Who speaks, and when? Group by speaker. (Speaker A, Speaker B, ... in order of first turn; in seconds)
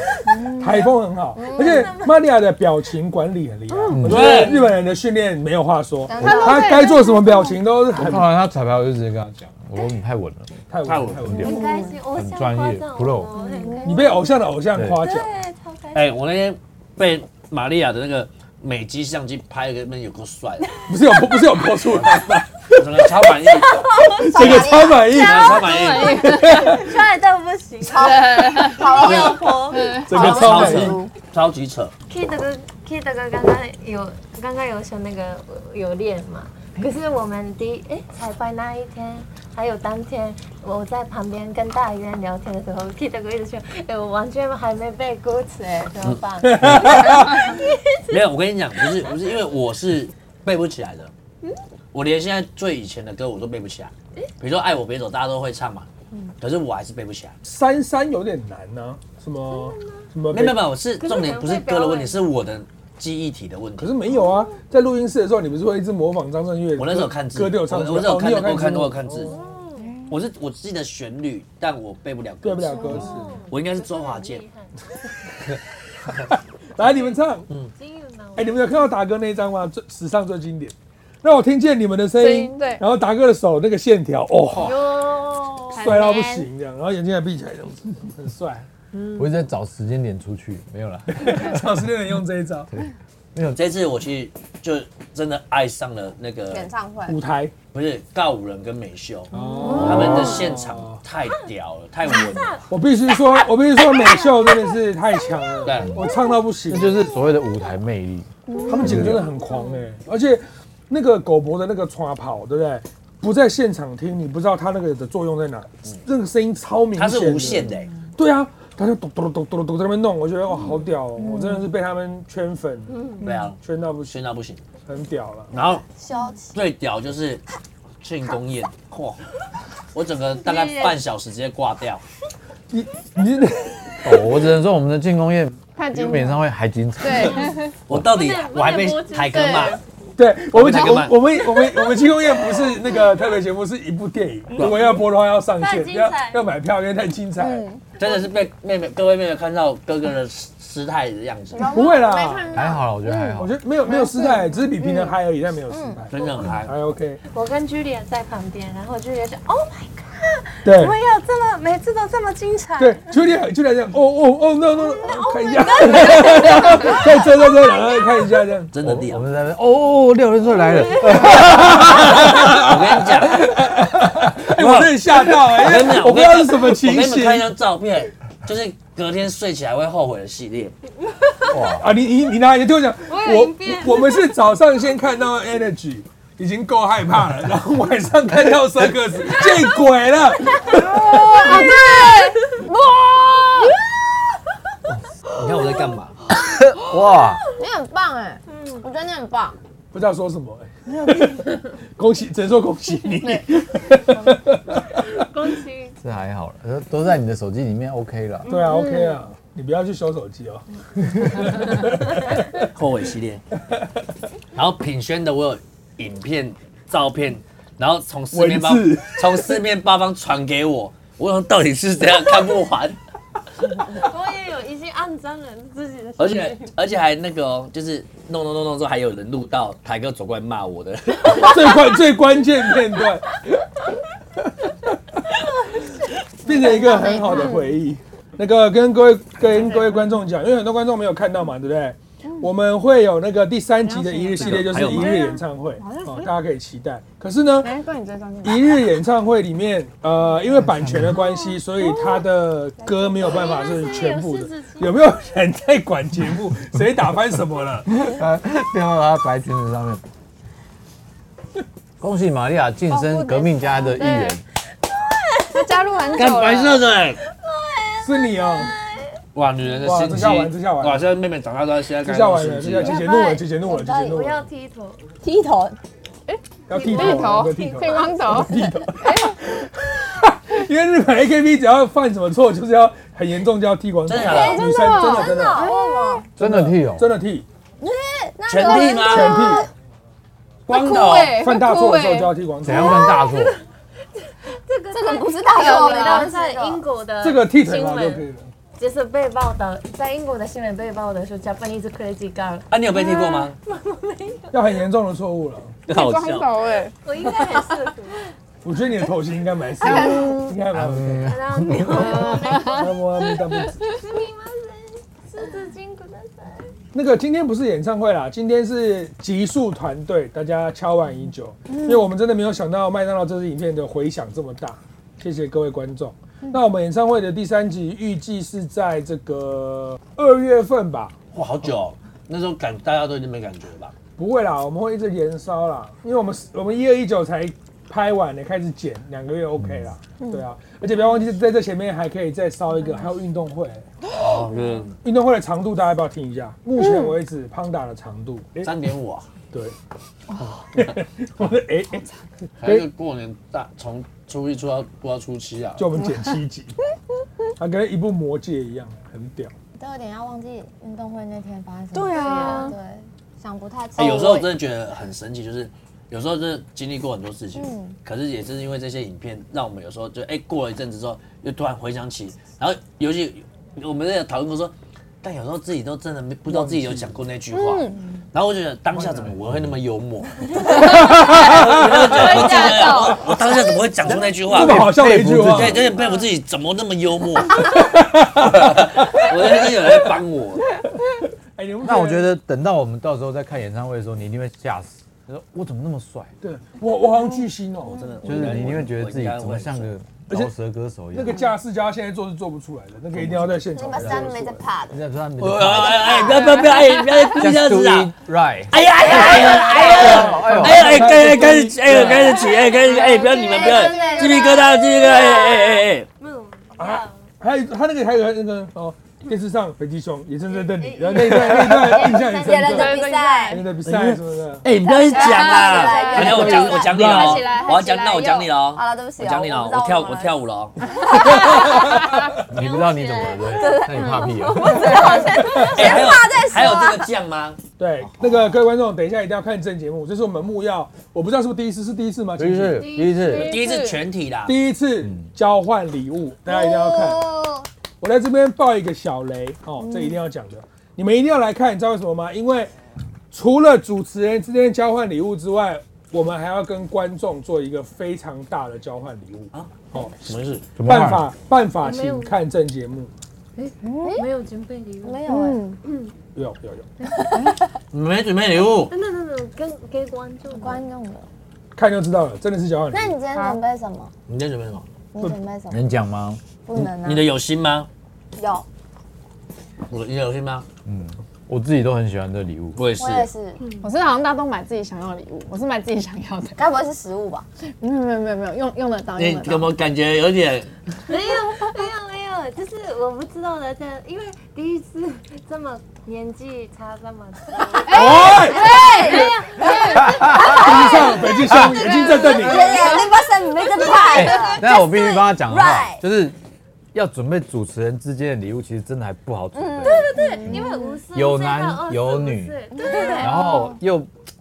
Speaker A: 0.3-0.9, 3.9-4.5, 6.2-7.6, 11.4-12.0, 25.6-26.8, 28.0-29.1, 29.7-30.8, 69.8-70.2, 82.2-82.8, 85.8-86.4, 99.3-100.3, 108.5-109.1, 121.2-121.6, 135.8-136.5, 137.0-137.7, 139.3-139.8, 147.4-147.8, 153.1-153.4, 153.9-154.4, 190.6-193.8, 201.1-201.3, 208.7-209.2, 237.1-237.8, 243.8-246.3, 247.6-248.8, 251.8-252.2, 262.9-264.4, 265.5-266.9, 276.3-279.4, 284.5-286.3, 290.7-292.3, 295.6-296.3, 305.9-306.9, 310.0-310.3, 312.0-312.8, 321.7-322.1, 346.8-347.2, 361.9-362.8, 377.5-378.1, 382.1-383.3, 406.3-406.6, 413.9-414.2, 422.5-423.7, 425.1-428.5, 431.0-431.4, 434.1-435.7, 443.2-444.0, 449.8-450.2, 463.8-464.2, 465.3-465.8, 467.3-467.6, 473.3-473.6, 483.8-486.6, 487.8-489.7, 497.8-500.2, 501.8-503.1, 503.8-504.1, 510.1-511.0, 512.8-513.8
Speaker B: 0.6-8.3, 10.7-11.6, 13.8-15.3, 20.9-27.0, 29.1-31.1, 46.4-47.5, 57.4-60.7, 63.8-69.4, 72.4-73.4, 76.1-77.5, 78.4-84.9, 85.8-88.7, 91.1-92.7, 97.1-97.5, 99.3-101.0, 102.7-107.1, 108.7-124.2, 124.9-125.5, 132.7-134.5, 140.2-147.7, 151.7-152.6, 153.4-157.2, 160.6-161.0, 162.8-168.7, 171.0-177.5, 181.8-191.9, 199.9-204.8, 208.5-212.7, 218.3-219.6, 231.3-233.4, 234.4-235.0, 236.4-247.7, 248.4-257.9, 268.0-268.8, 269.8-271.1, 272.0-274.4, 276.7-285.7, 286.4-287.5, 288.7-289.7, 291.3-293.1, 297.2-298.5, 304.5-305.8, 308.6-311.4, 312.5-313.9, 316.9-331.2, 334.2-343.9, 345.0-348.7, 350.4-352.1, 355.8-356.8, 357.6-359.5, 376.5-377.2, 378.9-379.3, 380.7-382.7, 384.4-385.9, 387.6-389.7, 391.6-392.3, 396.4-398.1, 401.1-404.6, 410.0-412.5, 416.8-424.7, 426.2-427.4, 435.3-436.1, 437.8-442.9, 444.4-447.4, 448.0-452.7, 453.3-463.1, 466.4-466.9, 471.8-473.2, 497.9-498.9, 500.4-502.9
Speaker C: 1.4-2.0, 6.1-6.8, 13.3-14.2, 23.8-25.1, 27.9-31.1, 72.8-73.1, 96.5-97.2, 125.6-126.6, 151.5-152.9, 155.7-156.0, 166.1-166.9, 197.6-199.6, 236.5-237.6, 265.0-266.0, 267.5-268.7, 272.8-274.2, 275.2-275.8, 284.1-286.3, 287.8-289.7, 294.9-296.8, 359.8-364.6, 367.6-368.0, 403.7-405.0, 405.8-406.7, 409.0-410.5, 412.6-415.7, 421.3-423.6, 424.8-427.6, 428.7-437.1, 446.5-447.7, 464.0-464.3, 465.0-465.6, 467.1-467.5, 470.5-471.3, 472.9-474.1, 475.1-475.9, 476.7-477.3, 478.4-478.7, 483.0-483.6, 486.6-487.5, 497.9-501.4, 502.2-506.0, 509.5-510.2, 512.8-513.4
Speaker D: 1.6-2.1, 11.4-14.2, 15.0-16.1, 24.9-29.9, 32.1-48.2, 59.5-60.1, 61.0-62.3, 69.3-69.9, 72.8-75.2, 77.7-78.7, 84.6-86.4, 88.9-89.3, 102.0-106.2, 107.2-107.6, 109.4-109.8, 122.9-123.2, 130.4-131.0, 137.9-139.8, 145.6-146.5, 157.3-163.0, 164.8-168.3, 170.6-171.4, 181.2-181.7, 183.1-184.3, 193.3-193.6, 198.5-198.8, 204.8-206.0, 208.4-209.0, 223.7-226.8, 253.2-255.0, 274.0-275.0, 276.7-278.4, 292.7-293.6, 294.4-298.2, 298.8-304.7, 307.1-308.3, 311.2-316.8, 362.2-362.8, 386.0-386.3, 413.0-414.5, 415.1-415.5, 416.2-417.2, 420.5-421.9, 432.6-433.9, 442.8-443.8, 461.8-462.4, 463.6-465.2, 465.9-466.1, 468.9-470.8, 483.6-483.9, 491.1-503.1, 503.8-504.6, 509.8-513.4
Speaker E: 3.9-4.4, 8.0-10.6, 11.2-11.6, 12.1-13.3, 89.2-91.9, 106.7-109.3, 134.0-138.1, 152.5-153.6, 168.8-172.6, 181.5-181.9, 196.3-197.4, 206.0-208.5, 250.5-251.2, 257.9-260.0, 262.0-264.4, 286.4-287.1, 292.6-293.6, 310.7-312.1, 339.6-339.9, 379.5-379.7, 384.5-385.9, 391.8-396.3, 398.2-401.4, 403.1-404.3, 404.9-406.1, 407.4-411.4, 432.5-434.9, 442.4-443.6, 460.8-461.3, 475.7-476.4, 480.9-482.8, 500.0-500.6, 504.1-506.4, 506.9-512.6, 513.2-514.1
Speaker F: 4.1-4.6, 10.9-11.2, 15.9-20.7, 22.7-23.8, 24.4-26.3, 30.1-31.9, 46.0-47.1, 48.1-51.1, 51.9-57.4, 60.3-63.9, 66.8-69.3, 70.1-74.4, 93.4-96.7, 97.7-102.6, 105.6-106.0, 117.0-117.9, 123.2-124.6, 125.5-125.8, 126.5-127.5, 128.0-129.2, 129.9-132.0, 137.9-139.8, 140.5-141.2, 144.5-145.0, 148.0-151.7, 156.1-156.8, 168.7-169.2, 171.2-173.5, 174.6-180.7, 195.3-196.2, 212.6-213.4, 214.6-223.0, 226.2-231.8, 244.4-245.2, 266.1-267.2, 269.4-273.0, 284.1-284.6, 288.5-289.6, 290.7-291.4, 302.7-303.6, 305.9-306.5, 331.3-333.9, 344.1-345.0, 348.6-349.3, 352.6-355.9, 364.0-384.9, 385.4-387.8, 388.4-390.7, 397.9-399.9, 405.4-408.1, 408.7-416.1, 423.8-431.3, 435.6-437.6, 443.3-444.6, 459.5-460.7, 467.9-468.9, 474.3-474.9, 476.8-477.9, 479.9-480.7, 482.8-483.3, 489.2-490.7